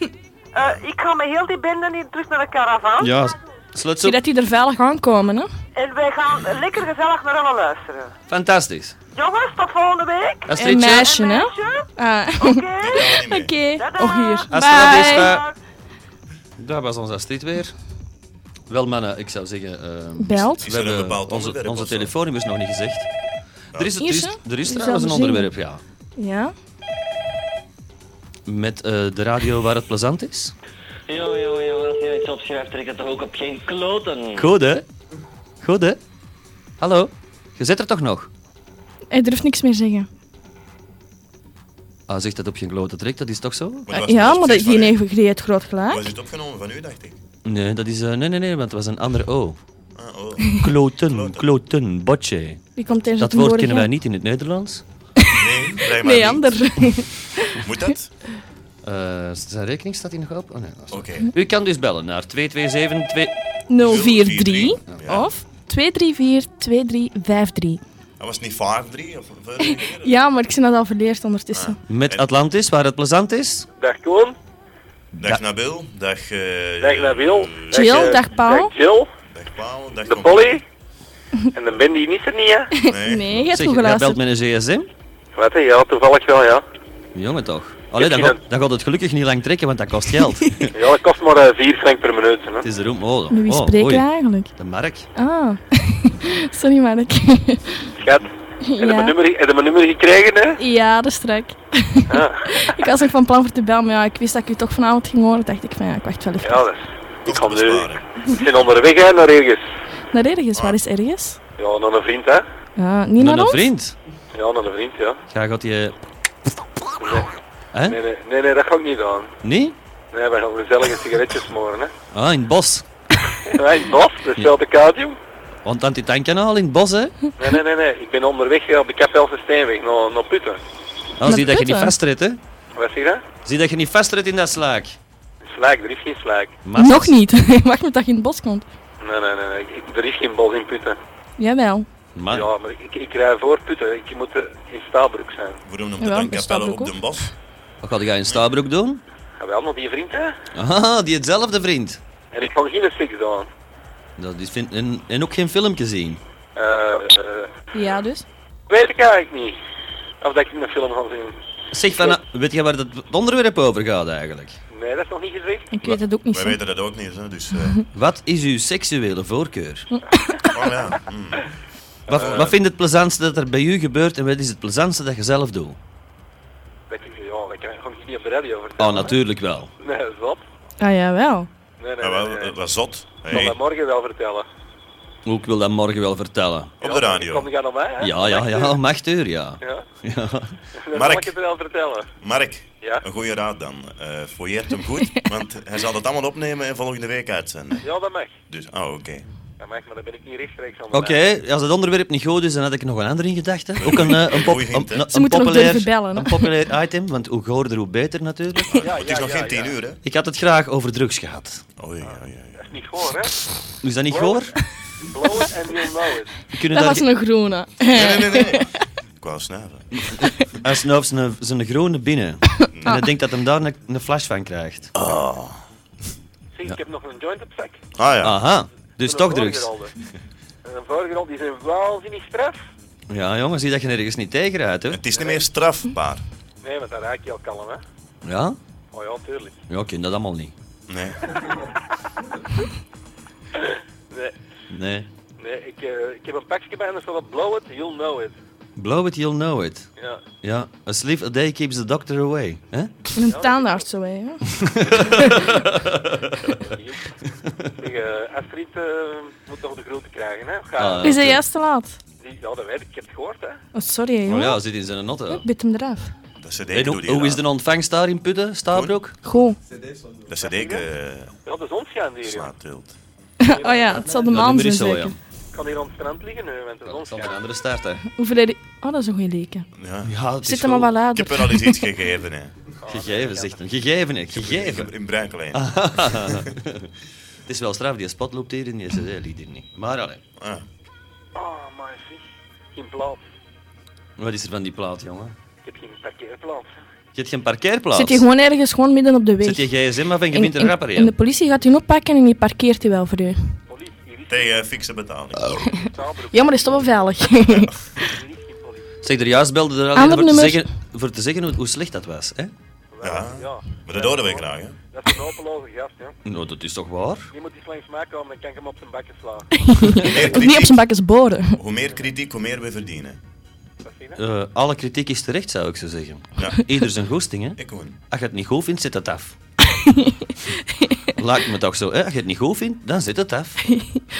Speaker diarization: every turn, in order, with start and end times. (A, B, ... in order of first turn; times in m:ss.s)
0:00.5-0:03.1 A
0:03.0-0:04.2 B
0:04.0-0:05.5 C
0:05.8-0:08.1 A
0:08.3-0:08.9 B
0:09.1-0:11.8 A
0:10.5-0:11.1 B
0:10.5-0:15.3 C
0:12.4-0:13.0 A
0:12.8-0:13.6 D
0:13.8-0:15.5 A
0:14.5-0:15.4 B
0:16.6-0:17.7 B
0:18.7-0:23.1 B
0:20.2-0:20.6 C
0:20.6-0:22.1 D
0:23.7-0:25.8 B
0:24.0-0:25.5 C
0:26.2-0:26.5 C
0:28.5-0:30.5 B
0:31.1-0:34.5 E
0:34.4-0:34.8 B
0:35.6-0:36.0 B
0:36.8-0:38.3 B
0:39.1-0:40.1 C
0:42.1-0:43.9 B
0:43.9-0:45.0 D
0:43.9-0:46.1 C
0:45.9-0:47.2 D
0:47.4-0:49.6 B
0:50.0-0:51.5 D
0:50.6-0:52.7 B
0:52.8-0:53.9 C
0:53.2-0:54.8 B
0:55.3-0:56.6 D
0:55.9-0:57.6 C
0:57.6-0:58.1 D
0:58.8-1:03.3 B
1:00.9-1:01.3 D
1:03.7-1:07.8 C
1:03.8-1:05.3 D
1:08.2-1:10.2 D
1:09.6-1:11.8 C
1:11.5-1:12.3 D
1:11.9-1:13.7 B
1:13.8-1:14.4 F
1:15.1-1:18.2 D
1:16.8-1:19.1 F
1:17.7-1:18.7 C
1:19.3-1:20.6 D
1:20.0-1:20.6 F
1:21.5-1:22.7 F
1:22.8-1:24.2 C
1:22.8-1:23.5 D
1:23.5-1:24.9 B
1:25.3-1:26.6 F
1:27.1-1:30.7 B
1:28.0-1:28.4 F
1:30.7-1:32.7 F
1:32.6-1:35.1 B
1:33.3-1:34.5 C
1:35.1-1:37.9 C
1:38.0-1:40.6 F
1:38.6-1:39.1 C
1:40.6-1:42.1 C
1:42.1-1:42.8 F
1:42.6-1:46.7 C
1:46.4-1:49.6 F
1:47.2-1:48.0 D
1:50.1-1:51.4 C
1:51.6-1:52.4 F
1:52.8-1:53.6 C
1:53.2-1:53.9 B
1:54.3-1:55.2 F
1:55.3-1:55.9 B
1:57.0-1:59.3 F
1:59.4-1:59.8 B
2:00.1-2:01.9 F
2:02.1-2:02.8 B
2:03.5-2:05.2 F
2:05.6-2:07.3 B
2:07.4-2:10.6 F
2:11.2-2:12.4 B
2:11.2-2:11.9 C
2:12.8-2:13.2 F
2:13.4-2:15.0 B
2:15.4-2:16.6 F
2:16.6-2:17.2 B
2:16.7-2:18.7 C
2:19.0-2:21.0 F
2:21.4-2:21.9 C
2:22.1-2:22.5 B
2:22.3-2:25.6 F
2:25.6-2:27.3 D
2:26.0-2:26.9 C
2:27.8-2:29.0 B
2:29.4-2:30.3 F
2:30.5-2:32.0 B
2:32.3-2:33.5 F
2:34.2-2:36.2 B
2:36.6-2:37.5 F
2:37.7-2:38.2 C
2:38.7-2:39.6 F
2:40.2-2:41.4 F
2:41.7-2:44.6 B
2:44.7-2:45.7 F
2:45.7-2:46.6 C
2:46.3-2:47.8 D
2:47.9-2:49.9 B
2:50.1-2:50.5 C
2:50.5-2:51.5 D
2:52.1-2:52.5 D
2:52.1-2:55.8 B
2:52.2-2:52.4 F
2:56.9-2:59.2 F
2:58.8-2:59.7 B
2:59.8-3:00.4 F
3:00.8-3:01.5 C
3:01.8-3:02.6 F
3:02.0-3:03.6 D
3:03.2-3:04.4 F
3:05.2-3:06.7 B
3:06.8-3:07.5 D
3:06.8-3:08.8 F
3:08.0-3:10.6 B
3:09.6-3:09.8 F
3:10.8-3:12.1 F
3:10.9-3:11.3 D
3:12.2-3:17.9 D
3:17.8-3:18.3 F
3:18.5-3:19.2 D
3:19.6-3:21.2 F
3:20.9-3:28.9 B
3:23.8-3:25.1 D
3:25.1-3:26.5 C
3:28.7-3:30.0 D
3:28.8-3:29.8 F
3:30.0-3:31.6 B
3:31.8-3:32.6 D
3:32.0-3:33.3 F
3:33.8-3:34.5 B
3:34.1-3:34.5 F
3:35.1-3:36.3 F
3:36.5-3:37.0 B
3:36.7-3:38.7 C
3:37.9-3:40.3 D
3:40.6-3:44.9 B
3:42.7-3:43.0 D
3:44.9-3:45.6 D
3:46.6-3:47.8 F
3:48.0-3:48.4 D
3:48.2-3:49.7 B
3:49.0-3:49.9 F
3:50.6-3:52.6 F
3:53.1-3:55.0 B
3:54.9-3:56.2 D
3:56.6-3:57.8 F
3:58.2-3:58.6 B
3:58.9-3:59.6 F
3:59.7-4:00.5 B
4:00.9-4:01.3 D
4:04.7-4:05.1 B
4:05.4-4:08.3 F
4:08.8-4:09.9 B
4:10.0-4:10.2 F
4:10.4-4:12.9 B
4:13.2-4:14.4 C
4:13.2-4:13.9 F
4:14.6-4:16.3 B
4:15.0-4:15.4 C
4:16.6-4:17.0 F
4:17.8-4:21.2 F
4:20.8-4:21.4 B
4:21.0-4:22.0 C
4:22.2-4:23.6 F
4:23.7-4:24.6 C
4:24.3-4:25.4 B
4:25.3-4:26.1 C
4:26.4-4:27.4 D
4:26.7-4:29.2 B
4:29.2-4:29.6 C
4:30.3-4:31.3 D
4:30.4-4:30.8 F
4:31.4-4:32.5 F
4:32.2-4:32.9 D
4:33.4-4:35.1 C
4:33.5-4:34.2 F
4:34.1-4:35.2 B
4:35.5-4:37.4 F
4:36.8-4:38.0 B
4:38.2-4:39.7 C
4:39.7-4:40.1 D
4:40.0-4:40.9 B
4:40.4-4:41.8 C
4:41.1-4:42.5 D
4:42.8-4:43.5 F
4:42.9-4:44.9 B
4:44.4-4:46.4 D
4:45.5-4:46.9 B
4:47.5-4:50.2 B
4:50.4-4:50.6 D
4:51.3-4:52.2 F
4:52.7-4:53.2 F
4:54.2-4:55.3 B
4:55.6-4:56.8 F
4:57.1-4:58.2 B
4:57.9-4:59.7 C
4:59.4-5:01.1 B
5:00.3-5:03.5 C
5:03.7-5:04.6 F
5:04.3-5:05.6 D
5:05.8-5:07.0 F
5:06.3-5:07.7 C
5:08.0-5:08.8 F
5:09.0-5:12.5 B
5:10.0-5:10.7 C
5:12.9-5:16.1 F
5:13.0-5:14.8 D
5:16.2-5:17.3 B
5:17.3-5:19.5 F
5:19.5-5:21.6 C
5:20.0-5:20.8 D
5:21.6-5:23.2 D
5:21.8-5:22.1 F
5:23.8-5:24.2 F
5:24.2-5:27.6 B
5:26.4-5:26.6 D
5:27.6-5:28.0 D
5:28.1-5:29.4 B
5:29.8-5:30.2 C
5:31.2-5:33.6 B
5:33.7-5:34.0 C